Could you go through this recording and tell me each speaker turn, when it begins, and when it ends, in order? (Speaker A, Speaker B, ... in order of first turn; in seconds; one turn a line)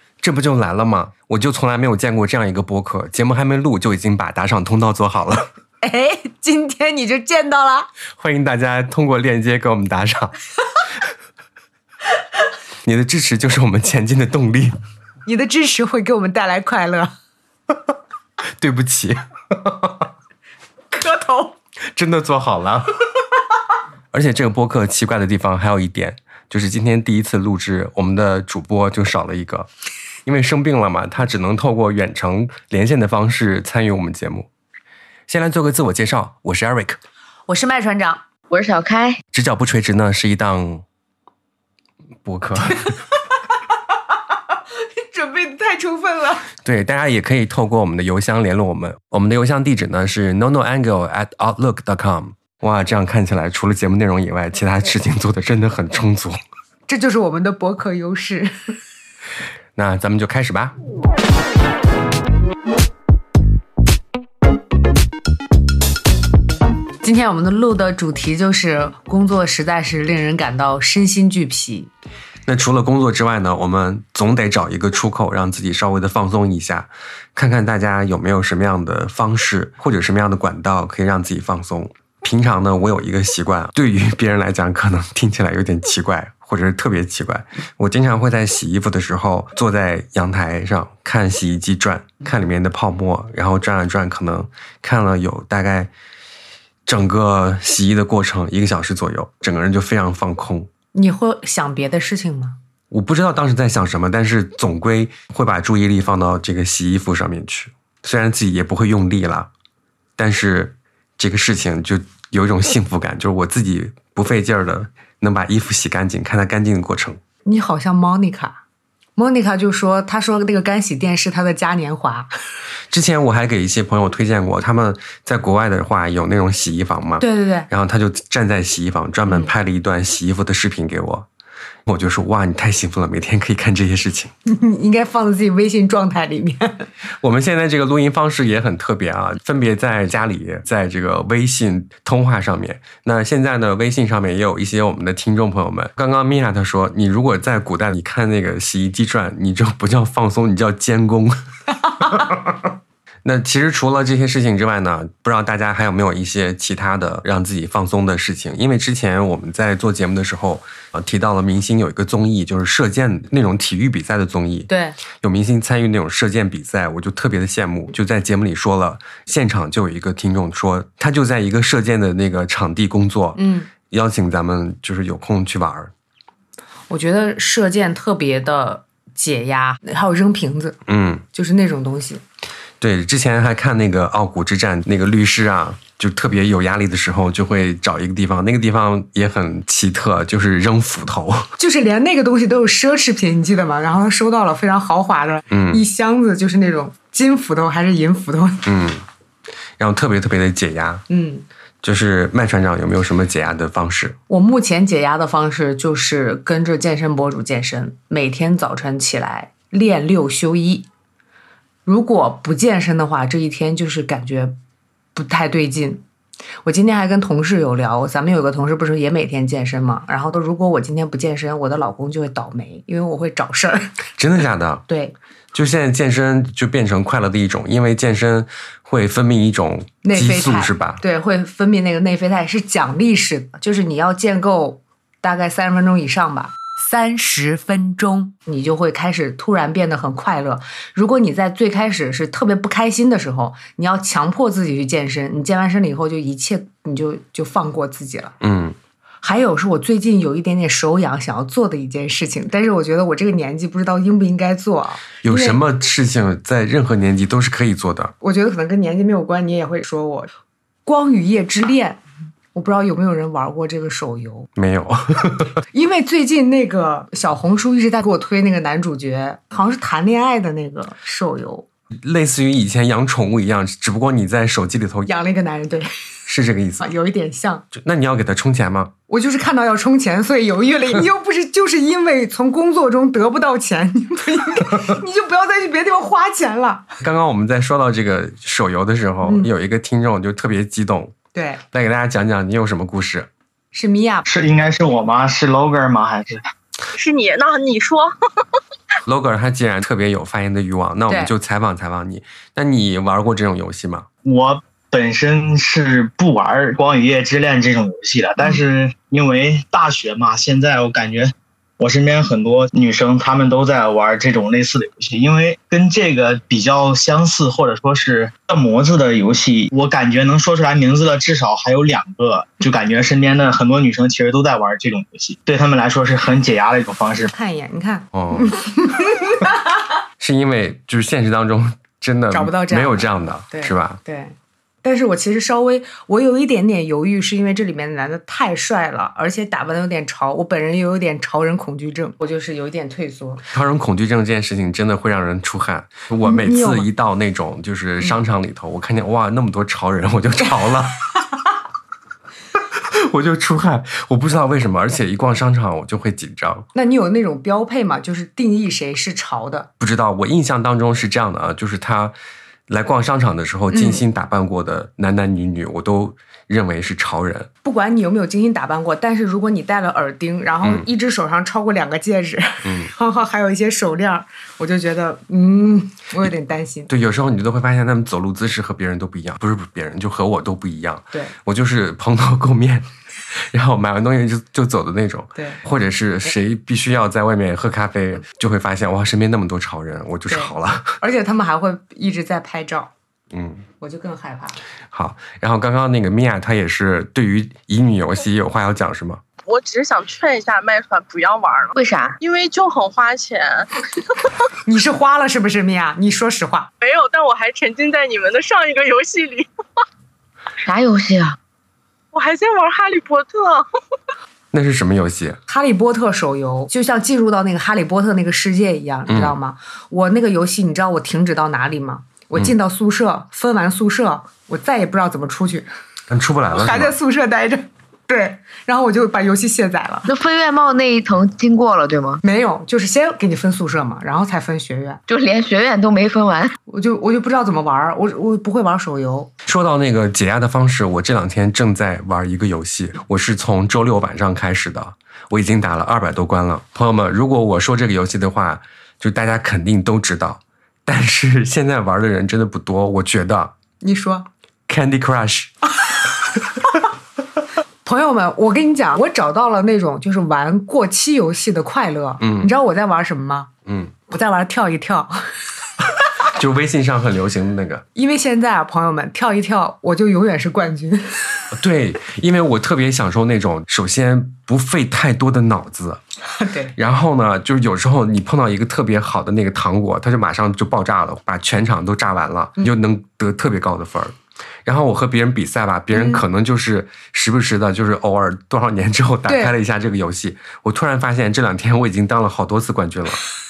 Speaker A: 0.2-5.5
Speaker B: 5.8-7.9
Speaker A: 8.2-10.3
Speaker A: 12.8-14.8
Speaker B: 15.2-17.1
Speaker A: 18.6-20.1
Speaker B: 20.9-21.6
Speaker A: 21.9-22.9
Speaker A: 24.1-29.7
Speaker A: 30.3-34.5
Speaker A: 35.3-37.0
Speaker B: 37.5-38.2
Speaker C: 38.5-39.2
Speaker A: 39.3-40.8
Speaker A: 42.2-43.0
Speaker B: 44.5-46.5
Speaker A: 46.6-56.4
Speaker B: 56.9-58.8
Speaker A: 59.8-60.7
Speaker B: 67.0-71.9
Speaker A: 72.5-95.9
Speaker A: 96.9-100.7
Speaker B: 100.9-102.6
Speaker A: 102.9-109.5
Speaker A: 110.2-117.2
Speaker B: 117.5-118.6
Speaker B: 119.2-122.3
Speaker A: 122.9-131.3
Speaker B: 127.2-127.7
Speaker B: 129.3-129.5
Speaker A: 131.9-134.3
Speaker B: 134.5-136.9
Speaker A: 137.2-151.4
Speaker A: 152.0-152.5
Speaker A: 153.2-175.9
Speaker B: 164.7-165.0
Speaker B: 173.3-173.7
Speaker B: 176.9-180.8
Speaker A: 180.9-181.2
Speaker B: 181.3-182.2
Speaker A: 182.8-191.5
Speaker B: 191.6-198.7
Speaker A: 195.5-195.8
Speaker A: 198.7-199.1
Speaker A: 199.8-201.0
Speaker B: 201.1-201.5
Speaker A: 201.8-204.2
Speaker B: 204.3-210.9
Speaker B: 211.9-214.6
Speaker B: 215.2-216.0
Speaker B: 216.6-223.9
Speaker A: 224.2-224.8
Speaker B: 224.9-225.2
Speaker A: 225.5-231.0
Speaker B: 230.0-248.3
Speaker A: 248.4-248.8
Speaker B: 249.2-255.6
Speaker A: 255.2-258.1
Speaker B: 258.2-260.3
Speaker B: 260.9-262.0
Speaker B: 262.5-264.5
Speaker A: 264.6-265.6
Speaker B: 265.7-271.7
Speaker A: 272.0-275.1
Speaker B: 275.1-275.9
Speaker A: 276.3-276.9
Speaker B: 276.8-277.7
Speaker A: 277.7-278.9
Speaker B: 279.1-286.9
Speaker A: 287.0-291.1
Speaker B: 289.2-289.5
Speaker B: 291.3-291.6
Speaker A: 291.7-293.3
Speaker B: 293.7-294.2
Speaker D: 294.2-296.4
Speaker E: 296.9-298.1
Speaker A: 299.1-304.1
Speaker B: 301.1-301.3
Speaker D: 304.2-327.3
Speaker B: 327.3-329.8
Speaker A: 328.1-328.6
Speaker A: 330.2-334.0
Speaker B: 332.3-343.4
Speaker A: 343.5-351.0
Speaker B: 346.2-346.9
Speaker A: 352.9-356.7
Speaker B: 356.7-359.7
Speaker A: 359.8-362.1
Speaker A: 362.7-367.5
Speaker B: 363.7-364.0
Speaker B: 367.6-376.9
Speaker A: 372.6-372.9
Speaker A: 376.9-382.9
Speaker A: 383.5-391.0
Speaker B: 385.4-385.6
Speaker B: 390.3-392.9
Speaker A: 393.3-393.6
Speaker B: 393.8-394.6
Speaker A: 394.9-399.2
Speaker E: 399.5-403.7
Speaker C: 401.8-402.2
Speaker B: 404.6-406.7
Speaker E: 406.8-409.5
Speaker C: 410.6-411.4
Speaker E: 412.1-413.6
Speaker A: 414.5-415.4
Speaker B: 415.5-425.7
Speaker A: 419.1-419.4
Speaker A: 426.1-426.9
Speaker B: 426.5-430.1
Speaker C: 430.1-432.2
Speaker B: 432.2-435.0
Speaker C: 435.1-436.6
Speaker B: 436.7-439.3
Speaker A: 439.5-453.5
Speaker B: 453.8-454.3
Speaker A: 454.7-455.5
Speaker B: 457.9-463.5
Speaker A: 462.2-462.5
Speaker A: 463.7-463.9
Speaker B: 464.1-465.2
Speaker A: 466.3-467.8
Speaker B: 467.9-471.4
Speaker A: 471.5-476.0
Speaker B: 476.3-476.8
Speaker A: 476.8-493.2
Speaker B: 485.9-486.2
Speaker B: 489.3-489.6